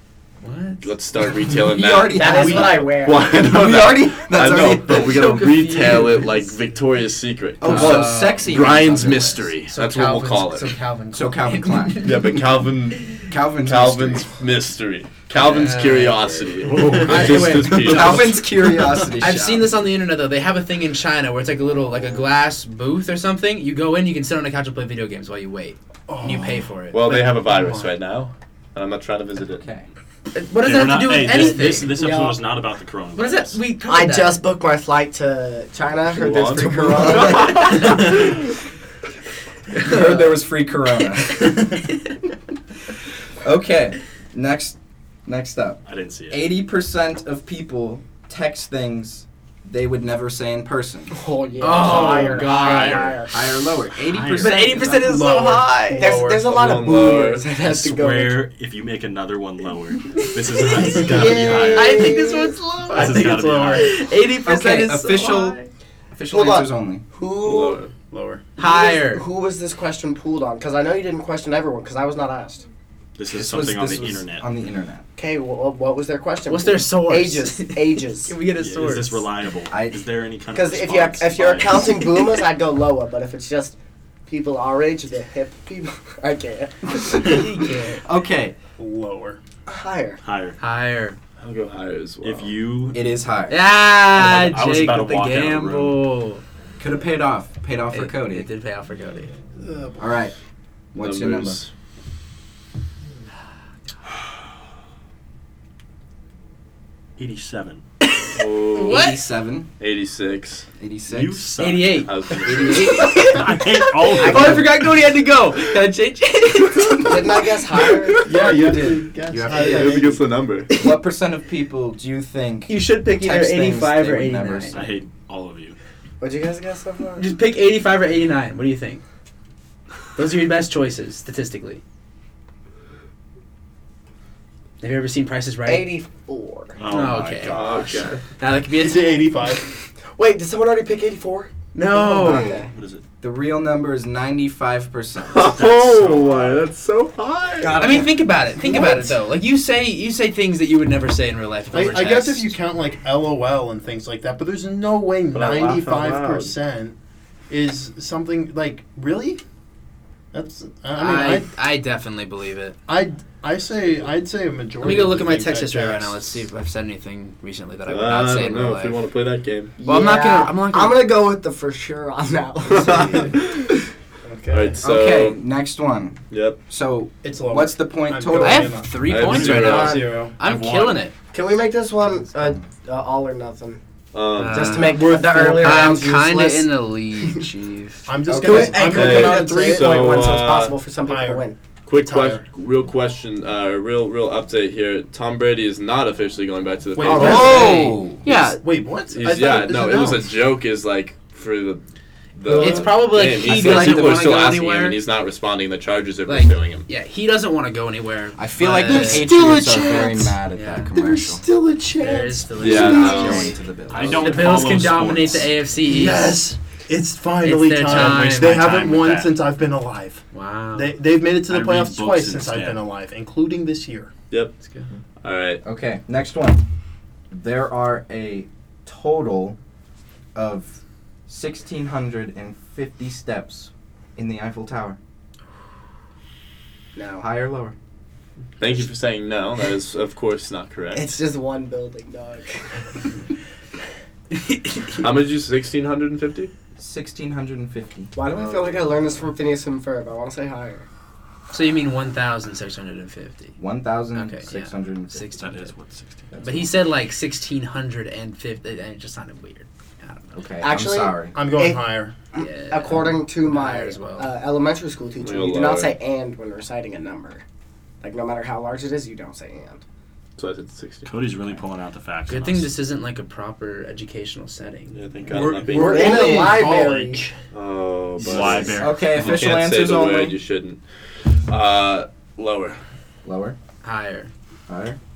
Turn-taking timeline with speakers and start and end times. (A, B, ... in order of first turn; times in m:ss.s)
0:00.4-0:00.9 A
0:00.8-0:10.8 B
0:01.6-0:05.2 C
0:02.1-0:03.5 D
0:04.8-0:06.6 A
0:07.6-0:09.4 C
0:07.6-0:12.4 A
0:11.1-0:12.2 C
0:12.0-0:18.4 B
0:13.3-0:14.3 C
0:15.4-0:27.0 A
0:17.3-0:19.7 C
0:26.1-0:28.0 E
0:26.9-0:29.6 B
0:29.6-0:29.9 C
0:30.3-0:32.0 A
0:30.6-0:33.6 F
0:31.9-0:32.4 D
0:33.2-0:34.4 A
0:33.8-0:38.2 D
0:36.1-0:38.0 B
0:36.6-0:37.8 C
0:39.8-0:41.8 C
0:39.9-0:40.2 D
0:39.9-0:40.2 A
0:43.4-0:51.2 C
0:45.9-0:46.5 F
0:51.1-0:53.4 D
0:51.6-0:53.2 A
0:51.9-0:52.4 E
0:53.3-0:54.9 C
0:54.0-0:56.2 A
0:54.1-0:54.6 F
0:54.6-0:56.6 E
0:56.0-0:58.4 D
0:56.4-0:57.5 B
0:57.6-1:02.2 F
1:00.8-1:02.7 D
1:00.9-1:01.7 E
1:01.7-1:05.7 A
1:02.9-1:04.0 F
1:02.9-1:04.0 E
1:04.4-1:05.6 C
1:06.2-1:07.0 C
1:06.3-1:07.8 D
1:07.4-1:07.9 B
1:08.1-1:08.5 E
1:08.6-1:09.2 A
1:08.6-1:12.7 D
1:13.2-1:14.5 F
1:13.3-1:15.0 C
1:15.2-1:18.3 D
1:16.5-1:19.3 A
1:18.6-1:22.1 F
1:19.7-1:20.0 C
1:20.5-1:27.4 D
1:27.2-1:27.4 C
1:27.2-1:28.0 A
1:27.9-1:28.6 C
1:28.8-1:29.4 E
1:29.7-1:30.2 D
1:30.2-1:30.6 F
1:30.6-1:31.2 A
1:31.4-1:32.6 B
1:32.2-1:33.2 F
1:32.9-1:33.6 C
1:33.5-1:36.4 A
1:34.1-1:36.0 F
1:36.8-1:38.5 C
1:37.9-1:39.3 A
1:39.6-1:40.0 E
1:40.0-1:40.3 C
1:40.9-1:41.6 C
1:41.0-1:41.7 B
1:47.2-1:47.8 F
1:48.0-1:49.2 A
1:48.4-1:49.1 B
1:48.8-1:49.7 C
1:49.8-1:50.7 B
1:50.8-1:51.5 C
1:51.1-1:54.8 F
1:51.6-1:59.8 A
1:52.0-1:53.2 B
1:54.1-1:54.6 D
1:57.0-1:58.4 D
1:58.2-2:00.2 E
1:59.3-2:00.0 C
1:59.6-2:00.7 B
2:00.7-2:04.9 C
2:02.7-2:04.9 A
2:04.7-2:05.8 F
2:06.2-2:07.3 D
2:07.2-2:09.0 A
2:10.2-2:11.8 A
2:14.8-2:15.9 A
2:15.7-2:16.8 D
2:16.8-2:18.1 F
2:16.8-2:19.4 A
2:17.4-2:18.2 B
2:18.7-2:19.7 E
2:20.2-2:22.7 D
2:21.7-2:22.6 A
2:22.7-2:23.0 F
2:23.2-2:25.5 C
2:25.3-2:28.0 B
2:25.5-2:26.7 F
2:27.6-2:29.1 D
2:27.8-2:32.5 A
2:31.7-2:37.0 E
2:35.3-2:36.5 B
2:37.5-2:39.4 E
2:40.3-2:41.5 E
2:40.9-2:42.8 A
2:42.9-2:46.3 E
2:44.8-2:49.0 A
2:47.9-2:49.8 B
2:49.8-2:53.5 D
2:49.8-2:51.0 A
2:52.7-2:53.8 B
2:54.3-2:54.8 D
2:54.5-2:55.4 B
2:54.8-2:58.9 C
2:56.3-2:56.6 B
2:57.2-3:00.4 E
2:58.4-3:01.1 A
2:59.0-3:00.1 B
2:59.6-3:00.1 D
3:00.4-3:01.0 F
3:01.3-3:03.8 D
3:02.3-3:02.6 C
3:04.1-3:05.0 B
3:04.4-3:08.1 A
3:04.5-3:06.7 D
3:04.9-3:06.0 E
3:08.1-3:10.4 E
3:08.3-3:08.8 C
3:08.4-3:11.6 D
3:08.8-3:10.8 B
3:11.0-3:12.5 E
3:11.9-3:17.9 B
3:17.0-3:20.3 E
3:17.0-3:18.6 A
3:17.1-3:18.2 C
3:19.1-3:21.8 B
3:22.4-3:26.9 B
3:22.5-3:25.0 A
3:23.3-3:24.3 C
3:26.3-3:29.3 A
3:28.4-3:31.4 C
3:28.9-3:30.3 E
3:30.5-3:30.9 A
3:30.9-3:33.5 E
3:32.0-3:33.6 A
3:32.6-3:34.2 B
3:32.6-3:34.6 C
3:33.9-3:35.5 F
3:34.2-3:36.4 A
3:35.8-3:44.1 E
3:37.4-3:38.7 A
3:37.9-3:39.3 F
3:40.3-3:40.9 A
3:41.5-3:42.8 F
3:45.2-3:45.6 B
3:45.6-3:46.7 C
3:47.3-3:49.6 C
3:50.3-3:55.0 C
3:57.0-3:57.2 D
3:57.2-3:57.8 C
3:58.6-4:01.1 B
4:00.9-4:02.8 D
4:04.4-4:05.0 A
4:05.0-4:06.5 B
4:06.8-4:08.1 C
4:08.1-4:10.9 D
4:08.3-4:08.7 B
4:11.5-4:13.6 A
4:13.6-4:15.3 C
4:14.1-4:15.7 A
4:15.4-4:16.3 F
4:16.3-4:16.7 C
4:16.4-4:20.3 A
4:20.3-4:21.4 C
4:20.6-4:21.8 D
4:21.3-4:22.2 E
4:22.4-4:24.3 A
4:22.4-4:27.4 D
4:25.2-4:26.0 B
4:28.0-4:29.8 D
4:30.4-4:31.1 B
4:31.1-4:32.7 F
4:32.3-4:35.0 A
4:34.9-4:36.2 B
4:35.3-4:37.4 E
4:35.7-4:37.3 D
4:37.5-4:42.8 B
4:38.2-4:39.5 F
4:38.8-4:40.4 C
4:43.2-4:43.6 C
4:43.8-4:44.3 A
4:44.7-4:45.0 C